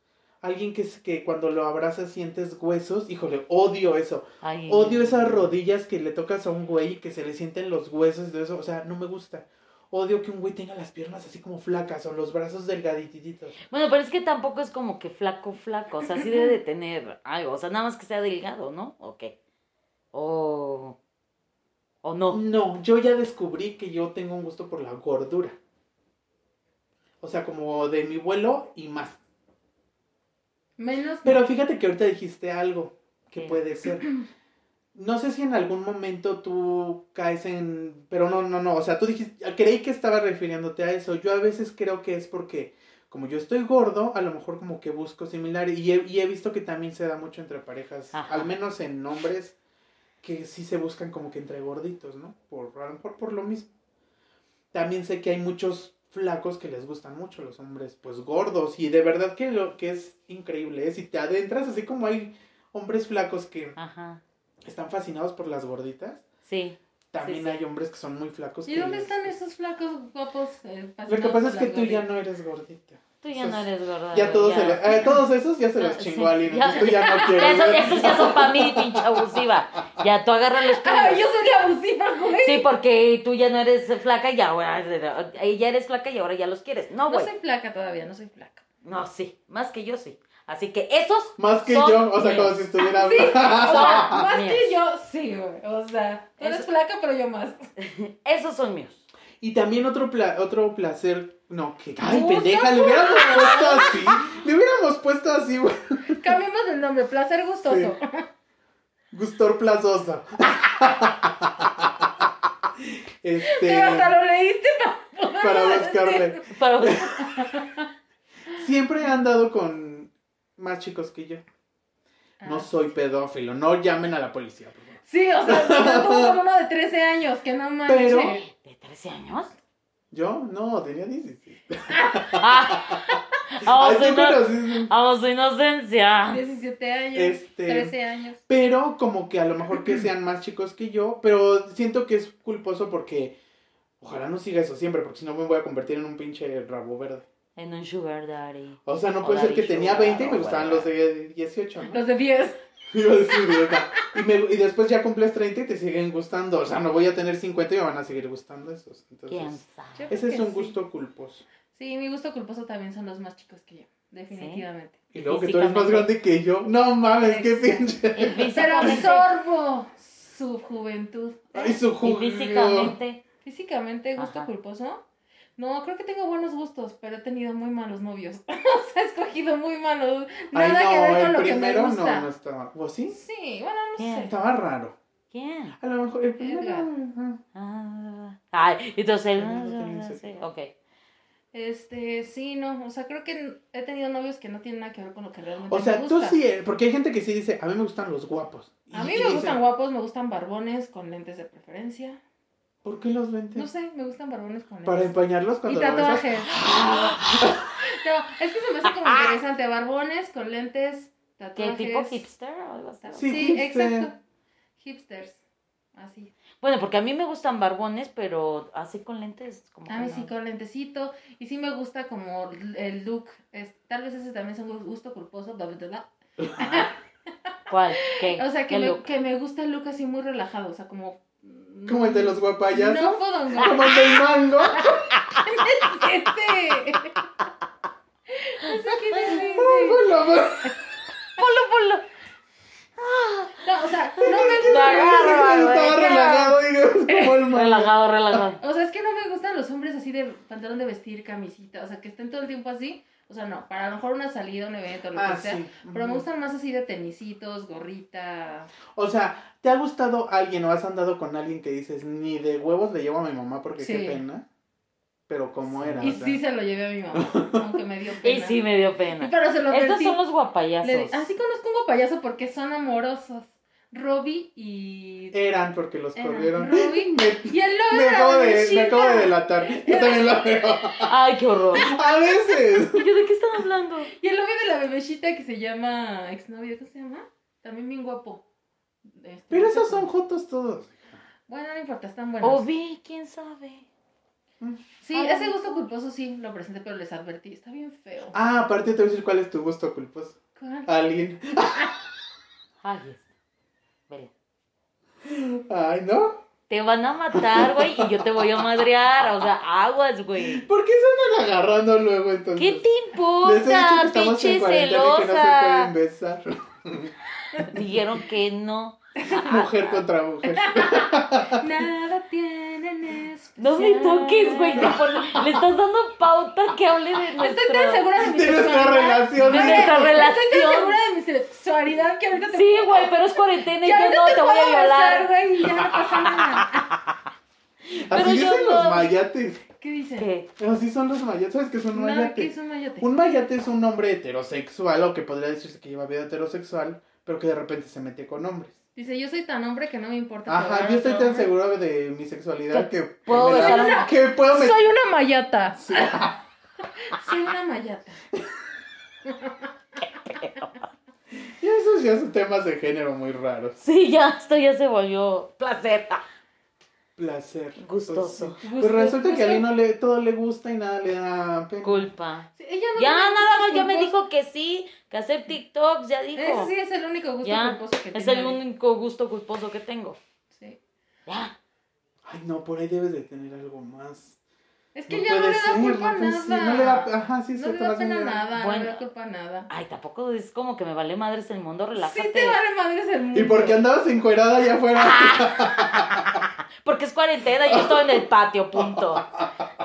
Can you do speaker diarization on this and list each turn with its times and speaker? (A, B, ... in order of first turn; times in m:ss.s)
0:00.4-0:13.6 A
0:04.4-0:05.5 B
0:13.7-0:19.3 B
0:20.1-0:21.0 B
0:22.0-0:22.4 B
0:22.3-0:25.6 A
0:27.2-0:29.2 A
0:30.8-0:31.4 C
0:31.2-0:34.1 A
0:34.9-0:49.6 A
0:48.1-0:48.5 B
0:50.2-0:53.7 A
0:54.7-1:03.8 A
1:03.8-1:04.2 B
1:04.6-1:06.3 A
1:06.5-1:07.6 B
1:07.1-1:09.3 A
1:08.7-1:12.1 C
1:11.1-1:19.2 A
1:13.2-1:15.2 B
1:15.8-1:21.4 B
1:16.8-1:17.5 C
1:20.7-1:22.7 C
1:22.4-1:27.3 B
1:27.1-1:28.6 C
1:28.8-1:32.7 B
1:31.4-1:34.3 A
1:32.8-1:37.6 C
1:33.4-1:34.8 B
1:36.4-1:36.7 B
1:37.8-1:39.0 B
1:39.4-1:46.3 A
1:42.0-1:44.0 C
1:46.1-1:48.3 C
1:47.6-1:47.9 A
1:49.1-1:54.2 A
1:53.4-1:56.5 C
1:55.4-1:57.3 A
1:56.5-1:57.1 B
1:57.1-1:57.9 C
1:58.5-2:01.4 A
2:02.4-2:02.7 C
2:02.4-2:06.4 A
2:05.1-2:08.4 C
2:07.9-2:08.4 A
2:08.3-2:09.6 B
2:10.1-2:14.9 A
2:11.9-2:12.4 C
2:12.4-2:16.4 B
2:16.3-2:18.4 C
2:17.2-2:17.9 A
2:18.5-2:23.4 A
2:24.0-2:27.3 A
2:27.6-2:30.9 B
2:28.9-2:32.0 A
2:31.9-2:32.6 C
2:32.9-2:41.4 A
2:33.4-2:33.8 C
2:39.3-2:40.1 B
2:40.0-2:40.8 C
2:41.7-2:45.0 C
2:44.3-2:44.6 B
2:45.1-2:49.0 A
2:45.3-2:46.1 B
2:47.2-2:51.8 C
2:48.2-2:49.3 B
2:51.5-2:53.0 A
2:52.0-2:53.2 B
2:53.4-2:55.0 C
2:54.2-2:54.5 B
2:55.6-3:02.3 C
3:00.5-3:03.2 A
3:03.1-3:04.3 C
3:04.0-3:04.3 B
3:04.3-3:05.0 A
3:05.3-3:05.8 B
3:05.8-3:07.4 A
3:06.4-3:06.9 C
3:07.6-3:10.7 B
3:09.4-3:10.2 A
3:11.5-3:16.4 C
3:15.7-3:19.6 A
3:18.9-3:22.2 C
3:22.8-3:23.7 A
3:23.6-3:26.6 C
3:24.8-3:27.7 A
3:26.5-3:27.6 B
3:27.8-3:32.2 C
3:31.6-3:33.4 B
3:33.0-3:34.2 C
3:33.2-3:34.1 A
3:34.8-3:35.4 C
3:35.9-3:36.3 C
3:36.6-3:40.3 B
3:39.9-3:47.0 C
3:46.4-3:46.9 A
3:47.7-3:49.0 B
3:48.1-3:54.2 C
3:51.9-3:54.9 A
3:54.7-3:57.2 C
3:58.3-4:00.1 C
3:59.2-4:00.8 A
4:01.4-4:02.1 B
4:03.0-4:03.5 B
4:03.6-4:07.4 C
4:04.2-4:08.4 A
4:04.5-4:06.2 B
4:07.5-4:08.6 B
4:08.6-4:18.7 C
4:15.1-4:16.3 A
4:19.0-4:24.4 A
4:23.8-4:24.2 C
4:25.3-4:26.4 A
4:25.8-4:26.2 B
4:26.0-4:28.6 C
4:27.2-4:27.6 A
4:28.2-4:31.3 B
4:29.2-4:30.2 C
4:30.8-4:35.4 C
4:35.3-4:41.1 A
4:36.2-4:40.9 C
4:41.0-4:41.9 B
4:41.7-4:43.0 A
4:42.8-4:44.1 B
4:44.1-4:48.4 C
4:49.1-4:50.1 C
4:49.5-4:51.1 A
4:51.5-4:52.7 C
4:52.4-4:53.8 B
4:54.6-4:54.9 A
4:55.0-4:58.4 C
4:55.1-4:55.8 B
4:58.3-5:02.0 A
5:00.6-5:00.9 C
5:02.8-5:03.3 B
5:05.2-5:06.4 A
5:06.7-5:10.7 B
5:07.3-5:08.7 A
5:10.4-5:12.9 A
5:12.6-5:15.9 B
5:13.4-5:17.1 A
5:17.6-5:20.0 B
5:19.3-5:21.7 A
5:20.4-5:25.4 C
5:23.6-5:28.1 B
5:27.4-5:36.9 C
5:28.2-5:30.2 A
5:29.4-5:31.0 B
5:32.5-5:35.3 B
5:37.9-5:39.1 B
5:38.1-5:39.6 A
5:39.8-5:40.3 C
5:40.2-5:40.5 B
5:40.6-5:48.8 A
5:41.9-5:43.1 C
5:49.0-5:51.5 C
5:50.5-5:54.8 A
5:52.7-5:54.1 B
5:53.3-5:56.3 C
5:55.8-5:56.4 A
5:57.0-5:58.2 C
5:59.3-5:59.7 C
6:00.4-6:00.7 B
6:01.6-6:03.8 A
6:03.8-6:06.2 B
6:07.2-6:12.1 A
6:07.8-6:08.6 B
6:08.6-6:09.7 C
6:11.8-6:16.7 B
6:12.6-6:14.1 C
6:16.4-6:18.6 C
6:17.4-6:20.2 B
6:20.5-6:20.8 C
6:21.3-6:21.5 B
6:22.2-6:24.4 A
6:25.0-6:29.7 C
6:25.1-6:28.4 A
6:28.5-6:29.0 B
6:29.7-6:32.6 B
6:32.0-6:33.8 C
6:33.3-6:36.5 A
6:35.0-6:36.0 B
6:36.8-6:39.3 B
6:37.6-6:38.2 A
6:38.8-6:39.6 A